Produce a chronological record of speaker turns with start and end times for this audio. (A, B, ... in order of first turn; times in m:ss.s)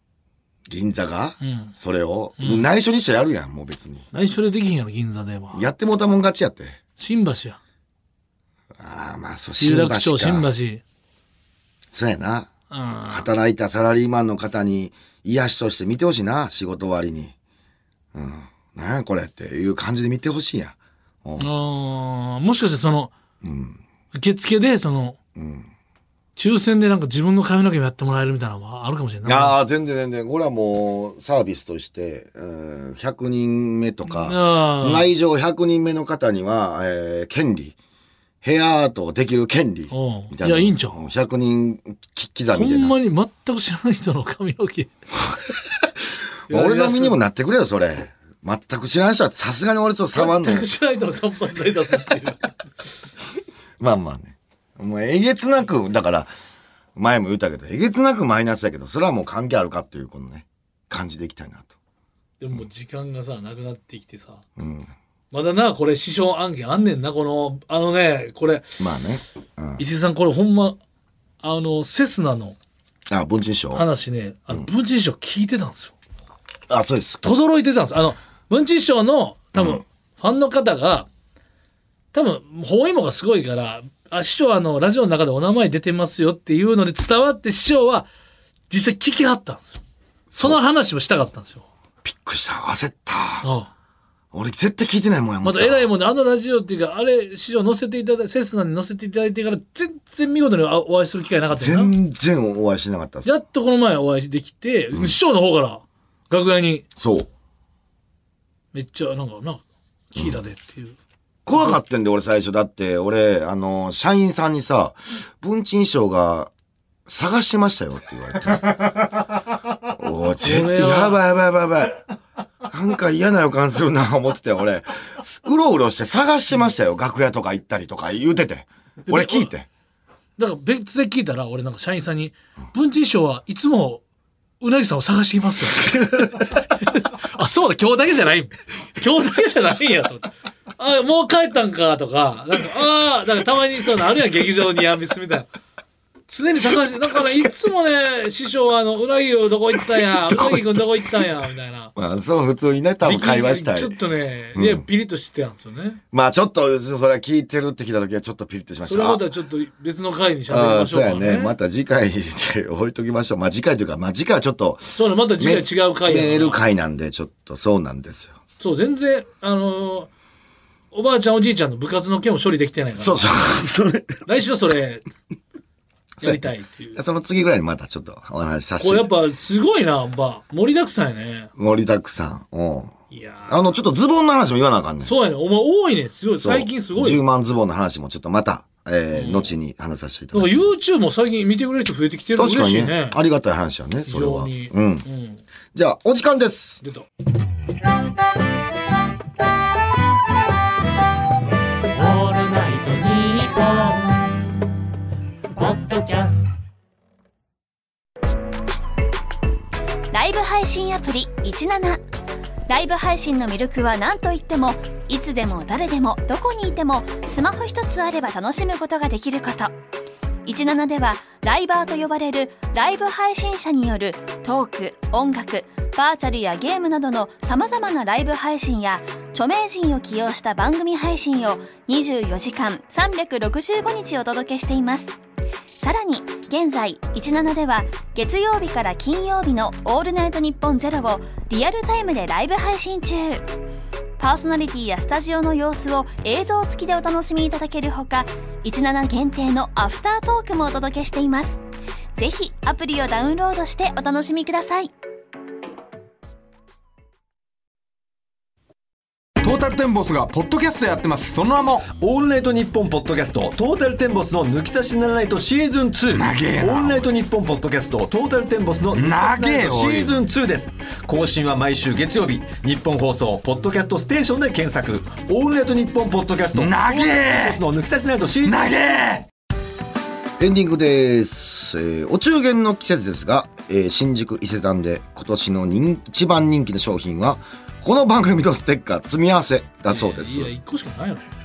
0:00.7-0:04.1 A
0:01.4-0:01.7 B
0:02.4-0:02.6 B
0:04.1-0:05.6 B
0:05.5-0:06.8 A
0:07.0-0:07.6 B
0:08.8-0:10.5 A
0:09.6-0:10.8 B
0:11.9-0:12.5 A
0:12.7-0:13.3 B
0:13.1-0:17.3 A
0:18.1-0:21.5 A
0:21.4-0:23.1 B
0:23.4-0:23.8 A
0:24.1-0:25.2 B
0:25.4-0:25.7 A
0:26.4-0:29.6 B
0:29.2-0:37.8 A
0:34.1-0:35.1 B
0:38.4-0:43.0 A
0:39.9-0:41.0 B
0:42.5-0:44.9 B
0:46.0-0:50.7 A
0:46.5-0:47.2 B
0:50.2-0:52.5 B
0:53.8-0:56.3 A
0:57.0-1:01.7 A
1:02.4-1:04.4 B
1:04.6-1:04.9 A
1:05.3-1:08.8 B
1:08.8-1:09.8 A
1:09.8-1:10.8 B
1:11.4-1:12.6 B
1:13.1-1:13.8 A
1:13.7-1:16.0 B
1:16.7-1:17.2 A
1:17.2-1:21.1 B
1:19.6-1:19.8 A
1:22.1-1:28.1 B
1:28.7-1:29.8 B
1:30.3-1:30.6 A
1:30.4-1:31.7 B
1:32.0-1:33.5 A
1:33.4-1:33.7 B
1:34.3-1:35.9 A
1:35.4-1:41.9 B
1:41.5-1:43.3 A
1:43.2-1:46.8 B
1:47.0-1:47.3 A
1:48.7-1:51.0 B
1:51.5-1:56.5 A
1:51.5-1:51.8 B
1:57.1-1:59.0 A
1:59.9-2:02.0 A
2:00.4-2:01.2 B
2:02.7-2:09.7 A
2:09.1-2:09.5 B
2:10.4-2:14.0 B
2:14.6-2:25.5 B
2:15.9-2:16.3 A
2:26.3-2:31.9 B
2:30.0-2:31.2 A
2:32.0-2:34.0 A
2:33.0-2:36.0 B
2:34.6-2:34.8 A
2:36.1-2:39.2 A
2:38.8-2:41.6 B
2:40.5-2:48.4 A
2:45.0-2:46.6 B
2:48.6-2:50.1 B
2:50.9-2:53.5 B
2:53.0-2:54.2 A
2:54.2-2:55.1 B
2:56.2-2:59.1 A
2:56.2-2:57.0 B
2:58.8-3:01.5 B
3:01.6-3:02.9 A
3:03.1-3:03.8 B
3:03.5-3:05.1 A
3:05.0-3:07.2 B
3:06.4-3:10.5 A
3:09.1-3:09.5 B
3:10.3-3:13.2 B
3:12.4-3:15.1 A
3:14.1-3:15.4 B
3:15.7-3:16.8 A
3:21.9-3:24.4 C
3:25.5-3:26.5 C
3:30.1-3:32.0 D
3:32.7-3:39.8 D
3:40.4-3:55.2 D
3:55.8-4:03.5 D
4:04.2-4:11.6 D
4:12.2-4:14.9 D
4:19.4-4:21.9 E
4:21.9-4:38.8 F
4:26.1-4:27.1 E
4:28.9-4:30.2 E
4:36.5-4:37.6 E
4:38.4-4:39.3 E
4:40.4-4:50.5 A
4:49.9-4:51.3 B